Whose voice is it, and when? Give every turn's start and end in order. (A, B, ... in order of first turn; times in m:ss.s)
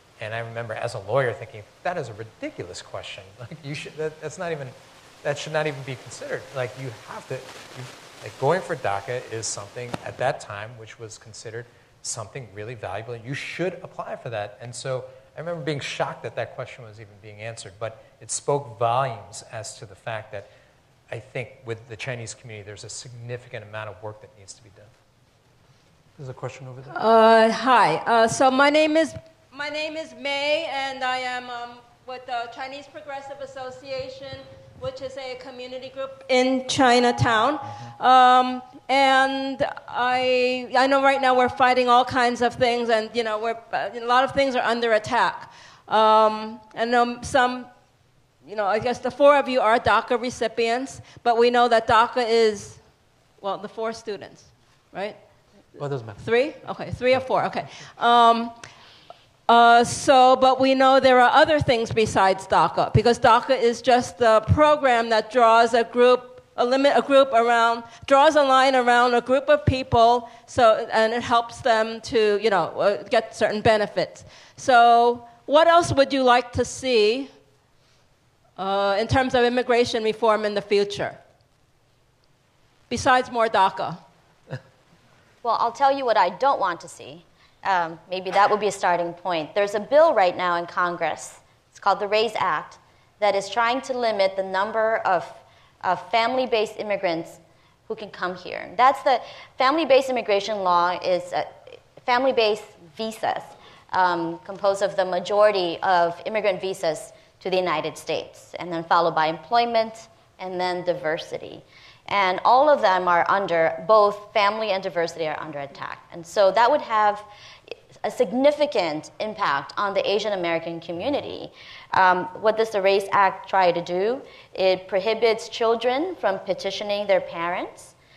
0:00.2-0:20.5 A
0:21.1-0:24.9 A
0:26.2-0:27.0 B
0:26.9-0:58.7 C
0:37.6-0:37.9 A
0:55.7-0:57.9 B
0:59.4-1:17.4 C
1:18.6-1:21.2 C
1:22.9-1:24.0 C
1:25.4-1:57.3 D
1:58.0-2:07.9 D